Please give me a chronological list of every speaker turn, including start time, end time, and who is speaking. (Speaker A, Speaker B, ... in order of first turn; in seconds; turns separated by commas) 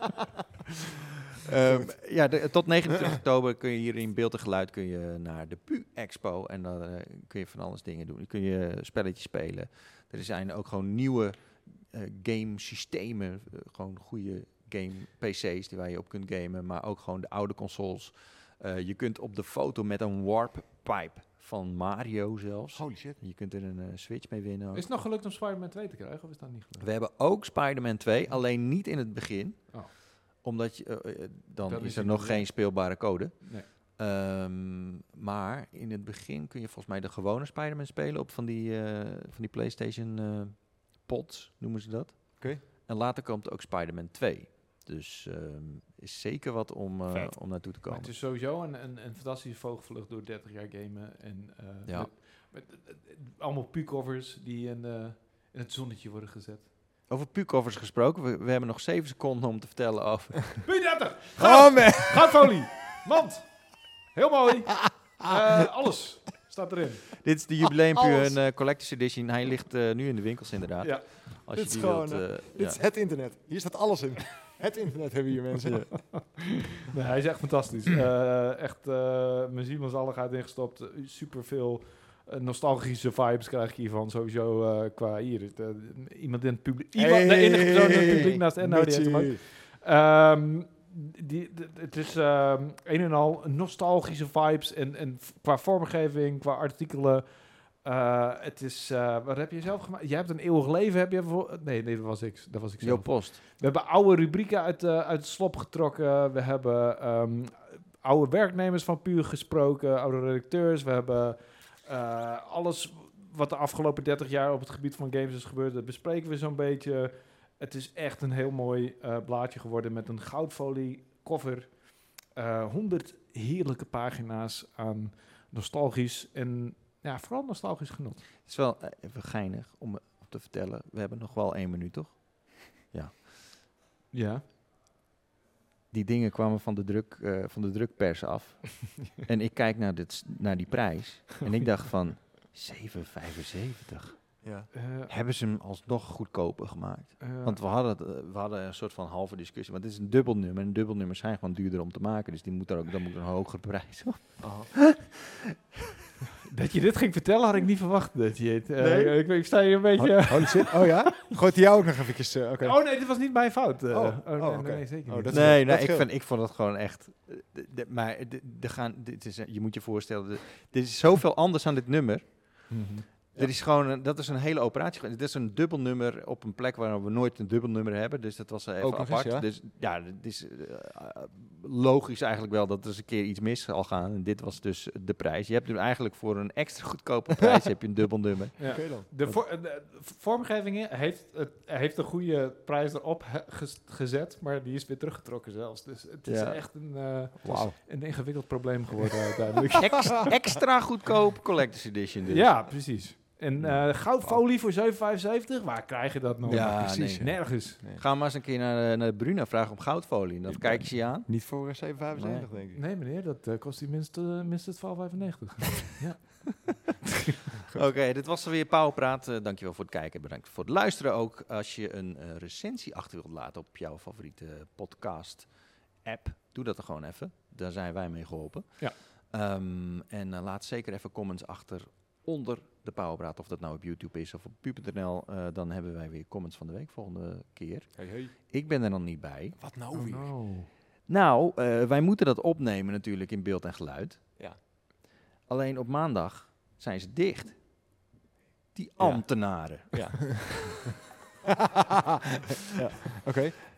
Speaker A: 1.4-24.9, Speaker B: 22.8-23.2, Speaker C: 24.7-26.9, Speaker A: 26.8-48.1, Speaker C: 31.7-32.5, Speaker C: 47.9-56.7, Speaker A: 57.1-60.6, Speaker C: 60.6-63.5, Speaker B: 61.4-62.4, Speaker C: 64.1-67.1, Speaker B: 64.8-65.3, Speaker A: 67.2-72.8, Speaker B: 68.0-68.3, Speaker C: 70.8-71.1, Speaker B: 71.5-76.1, Speaker C: 75.7-97.3, Speaker B: 87.0-89.4, Speaker C: 97.8-128.2, Speaker A: 102.8-103.4, Speaker A: 128.4-133.2, Speaker C: 134.1-134.4, Speaker A: 135.9-144.3, Speaker B: 144.4-144.7, Speaker C: 144.7-145.1, Speaker A: 145.1-155.6, Speaker C: 147.2-147.6, Speaker B: 154.4-154.7, Speaker C: 156.4-161.3, Speaker A: 158.8-159.2, Speaker B: 160.0-162.8, Speaker C: 162.6-165.5, Speaker B: 163.9-166.1, Speaker A: 165.3-172.8, Speaker C: 172.7-173.1, Speaker B: 172.7-173.5, Speaker A: 173.3-189.4, Speaker B: 178.8-179.5, Speaker C: 188.6-200.3, Speaker B: 188.6-189.1, Speaker A: 196.2-196.6, Speaker B: 197.4-197.7, Speaker A: 199.8-202.5, Speaker C: 202.3-207.8, Speaker A: 203.6-203.9, Speaker B: 206.5-208.0, Speaker A: 206.5-211.3, Speaker B: 210.5-212.8, Speaker A: 212.1-212.5, Speaker C: 212.7-217.3, Speaker A: 217.7-225.5, Speaker A: 226.0-239.6, Speaker B: 238.0-238.3, Speaker B: 239.6-240.3, Speaker C: 239.9-240.7, Speaker A: 241.1-244.2, Speaker A: 245.5-247.6, Speaker A: 248.8-250.5, Speaker B: 249.0-250.9, Speaker B: 251.5-253.6